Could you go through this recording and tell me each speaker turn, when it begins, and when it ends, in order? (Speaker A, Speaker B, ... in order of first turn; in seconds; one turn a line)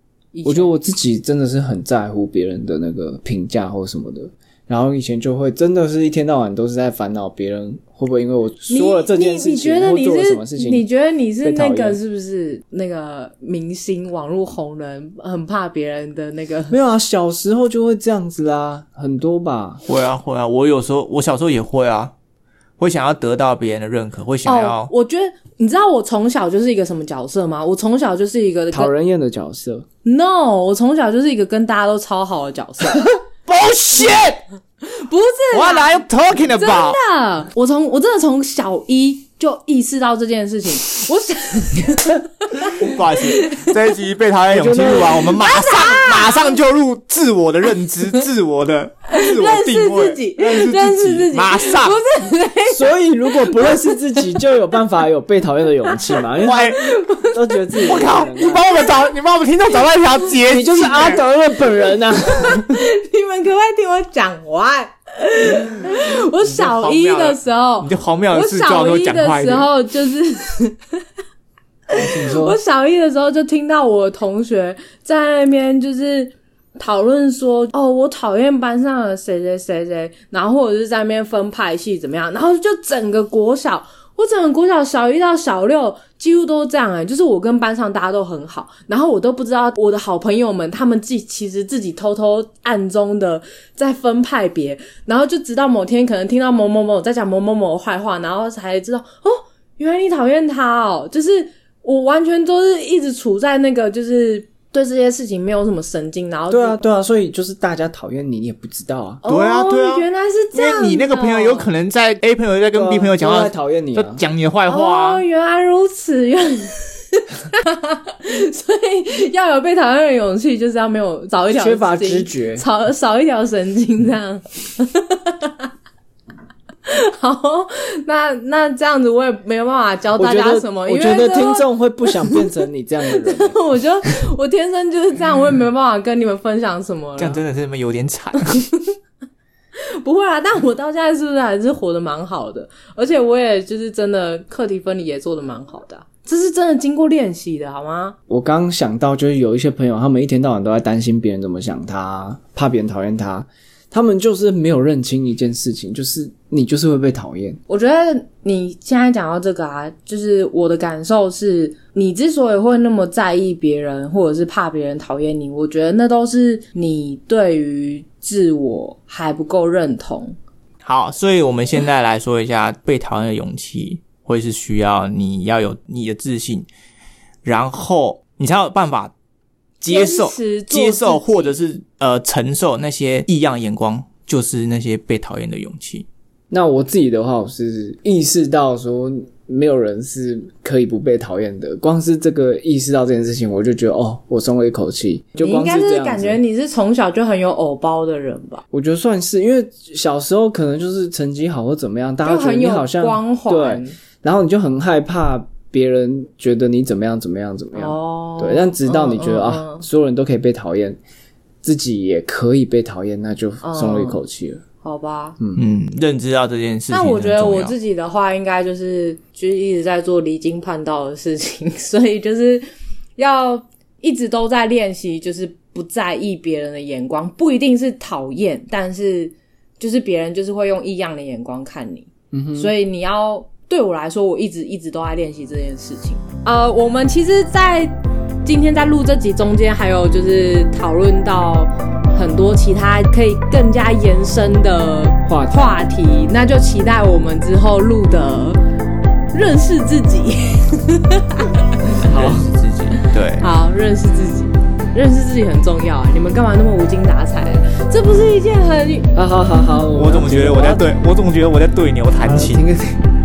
Speaker A: 0.3-0.7
Speaker B: 0.4-10.8
Speaker A: 8.7-16.8
Speaker B: 11.4-12.0
Speaker B: 16.7-19.8
Speaker C: 19.8-22.1
Speaker C: 22.8-24.9
Speaker A: 24.4-28.9
Speaker B: 28.7-29.9
Speaker A: 30.0-33.0
Speaker C: 32.9-34.4
Speaker A: 34.8-42.7
Speaker C: 35.5-37.0
Speaker C: 42.7-52.0
Speaker A: 43.2-43.7
Speaker B: 44.5-45.2
Speaker A: 45.2-46.6
Speaker A: 49.1-54.3
Speaker B: 52.7-56.7
Speaker C: 56.4-56.8
Speaker A: 56.7-58.9
Speaker B: 57.3-58.6
Speaker C: 57.8-61.2
Speaker B: 60.5-62.6
Speaker A: 62.3-70.9
Speaker C: 66.4-69.7
Speaker A: 71.9-106.9
Speaker B: 71.9-72.6
Speaker B: 106.5-109.2
Speaker A: 109.2-111.7
Speaker C: 109.2-115.2
Speaker B: 112.7-114.2
Speaker A: 114.7-125.7
Speaker B: 121.5-122.6
Speaker A: 126.8-132.5
Speaker B: 130.1-133.6
Speaker A: 133.1-137.4
Speaker C: 137.2-138.6
Speaker A: 139.8-148.2
Speaker B: 148.3-157.6
Speaker A: 157.7-170.3
Speaker C: 170.8-176.7
Speaker C: 177.4-179.1
Speaker C: 179.8-186.1
Speaker A: 179.9-181.6
Speaker B: 186.5-196.4
Speaker A: 195.4-198.6
Speaker B: 198.7-211.0
Speaker A: 202.2-204.0
Speaker A: 207.7-209.9
Speaker B: 211.6-214.6
Speaker A: 213.6-214.2
Speaker A: 214.8-215.4
Speaker C: 215.6-217.7
Speaker A: 216.9-222.6
Speaker A: 223.2-248.6
Speaker B: 232.3-232.7
Speaker B: 245.2-245.7
Speaker A: 249.3-251.6
Speaker C: 252.0-253.5
Speaker B: 252.0-252.5
Speaker A: 253.4-259.1
Speaker B: 259.1-260.9
Speaker C: 259.8-262.6
Speaker B: 262.2-263.0